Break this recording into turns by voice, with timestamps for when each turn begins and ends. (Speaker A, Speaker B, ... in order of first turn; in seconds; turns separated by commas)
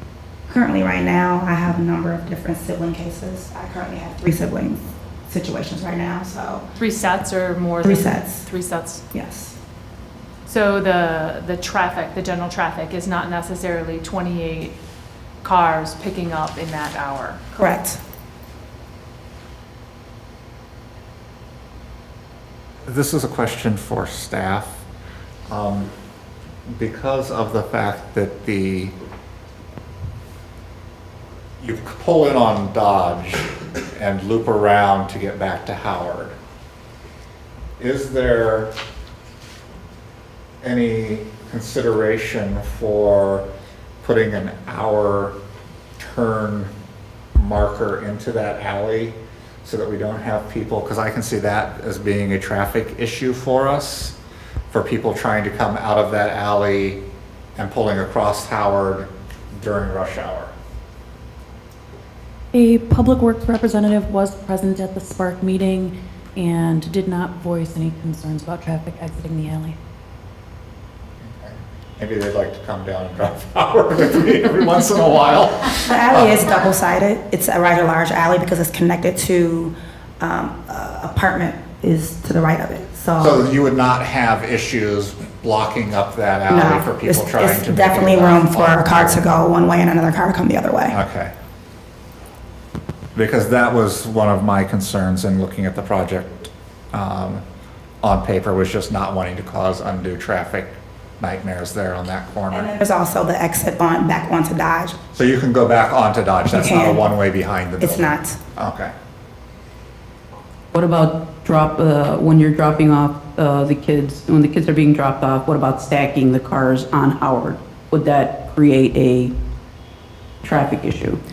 Speaker A: 0.5-6.6, Speaker B: 6.8-9.0, Speaker A: 7.8-8.5, Speaker A: 9.1-9.6, Speaker B: 10.4-14.8, Speaker B: 15.4-17.4, Speaker A: 17.5-18.0, Speaker C: 22.9-24.8, Speaker C: 25.5-25.9, Speaker C: 26.7-28.9, Speaker C: 31.6-36.4, Speaker C: 37.8-38.8, Speaker C: 40.6-43.5, Speaker C: 44.0-45.4, Speaker C: 46.0-46.7, Speaker C: 47.4-54.2, Speaker C: 54.7-57.0, Speaker C: 57.6-60.5, Speaker D: 62.6-69.7, Speaker C: 71.2-76.4, Speaker A: 75.8-83.5, Speaker C: 83.2-89.2, Speaker A: 86.5-91.0, Speaker C: 90.9-91.3, Speaker C: 93.1-97.4, Speaker C: 98.0-102.7, Speaker A: 102.5-105.0, Speaker C: 105.1-108.9, Speaker A: 106.5-107.0, Speaker A: 107.8-108.4, Speaker E: 110.7-119.3, Speaker E: 120.4-121.2